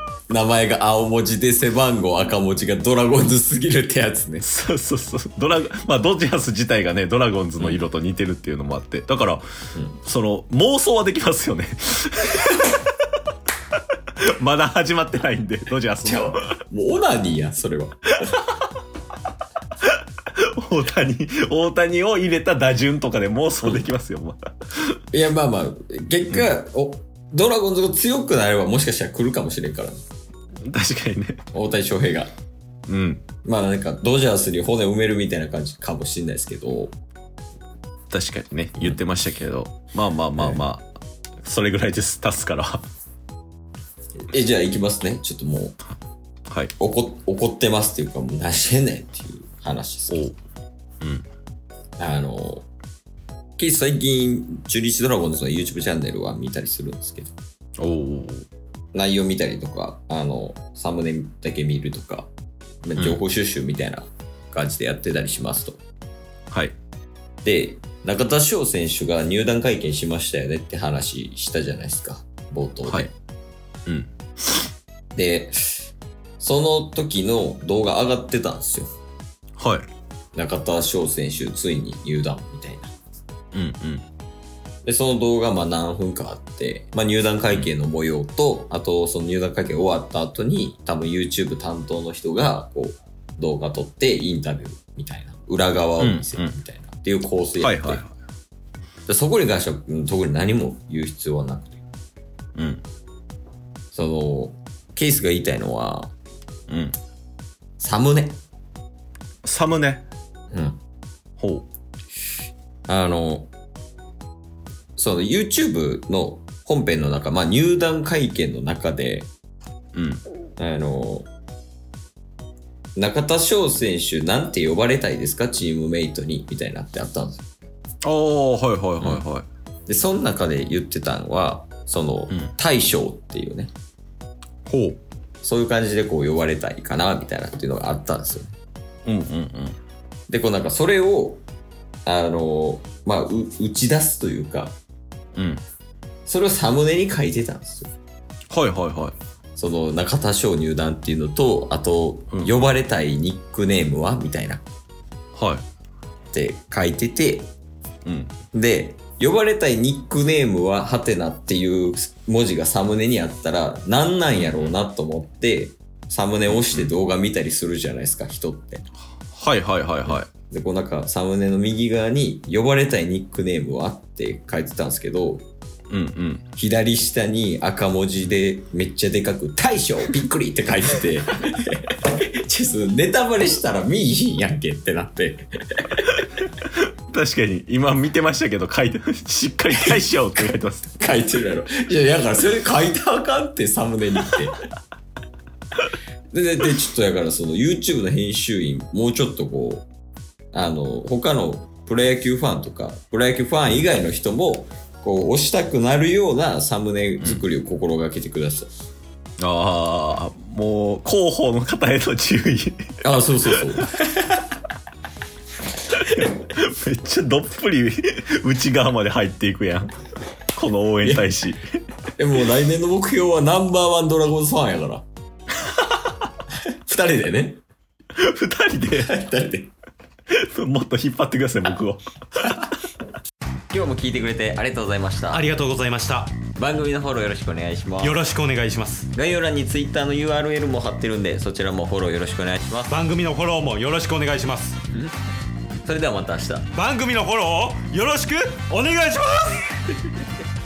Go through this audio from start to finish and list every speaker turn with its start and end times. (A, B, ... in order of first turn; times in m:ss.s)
0:00.3-0:04.5 A
0:04.4-0:09.5 B
0:10.0-0:12.8 B
0:14.2-0:16.5 B
0:16.0-0:18.0 A
0:19.8-0:25.0 B
0:25.1-0:30.0 A
0:30.6-0:31.4 B
0:31.5-0:32.3 A
0:32.9-0:33.2 B
0:33.4-0:36.9 A
0:38.1-0:40.9 B
0:40.4-0:40.6 A
0:41.4-0:42.8 B
0:44.3-0:45.8 A
0:46.8-0:50.3 A
0:50.1-0:50.4 B
0:51.0-0:51.3 B
0:52.0-0:52.7 A
0:53.6-0:57.3 A
0:57.8-0:58.5 B
0:58.9-1:02.3 A
1:02.8-1:05.8 A
1:06.5-1:06.8 B
1:07.4-1:13.1 A
1:13.9-1:14.1 B
1:15.2-1:18.9 A
1:19.6-1:19.9 B
1:20.4-1:22.9 A
1:23.5-1:24.1 B
1:24.8-1:38.0 A
1:36.0-1:36.5 B
1:37.6-1:38.1 B
1:39.1-1:41.8 A
1:42.6-1:42.8 B
1:43.9-1:46.1 A
1:46.7-1:47.0 B
1:47.8-1:48.4 A
1:49.4-1:50.1 B
1:50.5-1:50.8 A
1:51.4-1:51.7 B
1:52.9-1:53.5 A
1:55.0-1:59.3 A
2:00.0-2:00.2 B
2:00.6-2:01.3 A
2:03.0-2:07.5 A
2:08.0-2:09.5 B
2:09.9-2:13.7 A
2:14.7-2:15.0 B
2:15.4-2:18.5 A
2:19.1-2:19.8 B
2:20.3-2:21.4 A
2:22.1-2:24.8 A
2:25.4-2:25.6 B
2:26.3-2:27.9 A
2:28.5-2:29.2 B
2:29.6-2:34.6 A
2:35.4-2:35.6 B
2:36.3-2:37.5 A
2:38.0-2:38.3 B
2:38.5-2:48.9 A
2:44.4-2:44.7 B
2:46.5-2:46.9 B
2:49.3-2:50.3 B
2:50.1-2:55.4 A
2:55.9-2:56.5 B
2:56.6-3:06.1 A
3:06.6-3:11.0 B
3:11.0-3:14.6 A
3:16.3-3:19.8 A
3:20.5-3:28.7 A
3:29.4-3:33.9 B
3:33.0-3:34.4 A
3:35.9-3:39.9 B
3:40.5-3:41.6 B
3:41.0-3:41.3 A
3:42.2-3:45.0 A
3:46.8-3:47.6 A
3:48.2-3:49.1 B
3:48.9-3:49.7 A
3:50.3-3:52.7 B
3:53.7-3:55.5 A
3:55.3-3:56.4 C
3:56.6-3:58.2 A
3:58.0-3:59.1 C
3:59.1-4:03.0 A
4:02.9-4:04.8 C
4:05.8-4:06.7 A
4:06.7-4:09.7 C